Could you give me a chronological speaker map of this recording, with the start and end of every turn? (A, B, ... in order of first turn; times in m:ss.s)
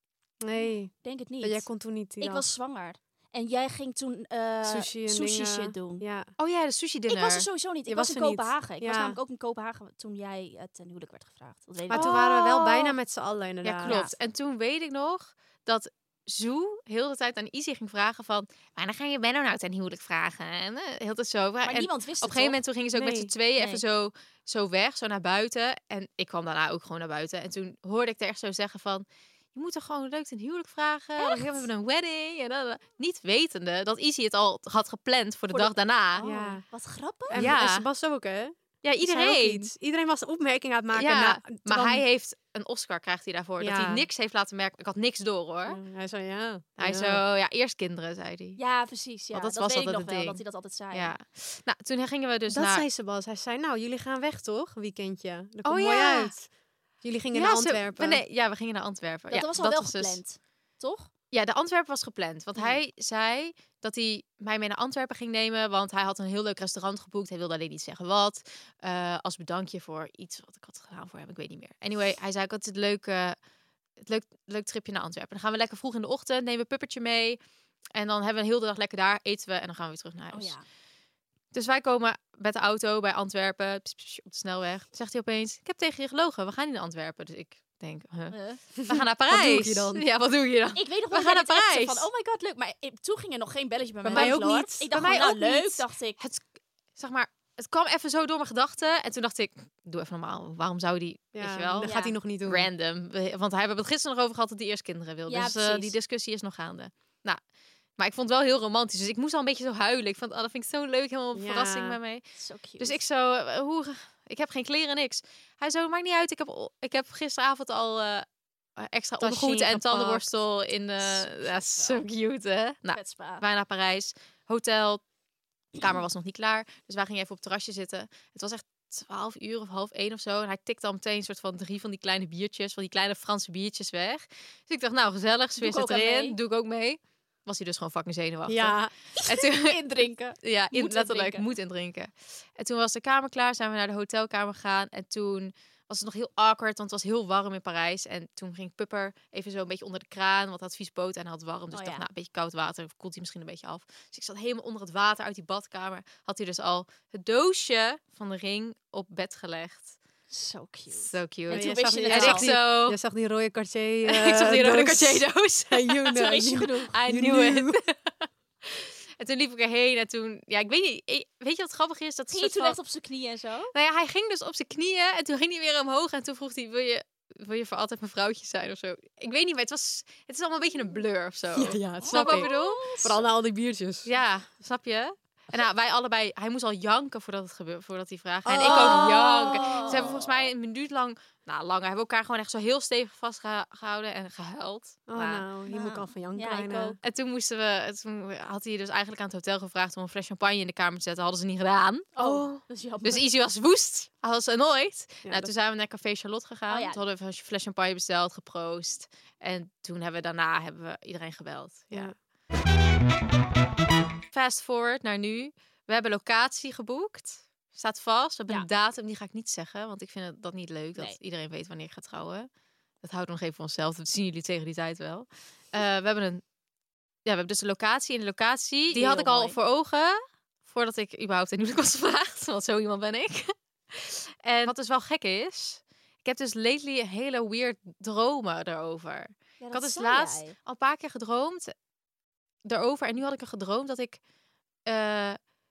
0:00.4-0:02.5 A
0:01.0-0:01.7 B
0:02.2-0:06.0 B
0:04.6-0:06.3 A
0:06.4-0:07.5 C
0:07.1-0:12.1 B
0:07.9-0:09.2 A
0:11.9-0:13.0 C
0:11.9-0:13.9 A
0:13.6-0:36.2 C
0:13.8-0:14.1 B
0:21.6-0:22.6 B
0:22.9-0:23.3 A
0:23.6-0:23.8 B
0:31.2-0:31.6 B
0:35.5-0:37.5 B
0:36.2-0:36.6 A
0:37.3-0:42.0 A
0:37.3-0:37.8 C
0:38.8-0:39.7 C
0:40.9-0:45.8 C
0:43.6-0:44.0 A
0:45.6-0:47.2 A
0:46.8-0:48.6 C
0:48.6-0:51.2 B
0:49.3-0:52.8 C
0:52.5-0:56.5 A
0:55.6-0:56.3 C
0:57.0-0:58.2 A
0:57.3-1:00.2 C
0:59.3-1:01.1 B
1:01.3-1:13.4 C
1:14.0-1:17.4 C
1:17.9-1:20.5 C
1:20.3-1:20.6 B
1:21.5-1:32.1 C
1:28.3-1:28.6 B
1:28.8-1:30.0 A
1:30.7-1:36.2 B
1:34.0-1:34.9 A
1:34.1-1:36.4 C
1:37.0-1:47.4 C
1:41.3-1:42.7 A
1:41.8-1:42.2 B
1:45.3-1:45.9 B
1:48.0-1:52.2 C
1:51.3-1:52.0 A
1:52.4-1:53.0 B
1:52.8-1:58.2 C
1:58.8-2:05.0 C
1:59.2-2:00.3 A
2:01.0-2:02.0 B
2:02.9-2:03.4 B
2:05.7-2:19.8 C
2:15.6-2:16.4 B
2:18.5-2:18.9 A
2:19.2-2:21.4 B
2:20.4-2:40.0 C
2:31.7-2:32.0 B
2:40.3-2:42.5 B
2:40.9-2:43.0 C
2:41.5-2:47.8 A
2:44.0-2:46.3 C
2:46.1-2:47.0 B
2:46.9-2:52.8 C
2:52.3-2:53.7 B
2:53.7-3:03.1 C
3:01.5-3:04.1 A
3:02.0-3:03.2 B
3:04.0-3:15.4 C
3:08.4-3:10.2 A
3:08.6-3:10.3 B
3:15.1-3:17.0 A
3:15.7-3:17.0 B
3:17.0-3:22.2 C
3:22.2-3:23.2 B
3:22.2-3:22.6 A
3:23.0-3:32.1 C
3:25.2-3:25.5 A
3:26.7-3:27.0 B
3:34.3-3:42.5 C
3:43.0-3:46.4 C
3:47.2-4:01.7 C
3:48.9-3:49.6 B
3:59.6-4:00.6 B
4:02.6-4:04.2 C
4:04.8-4:05.4 C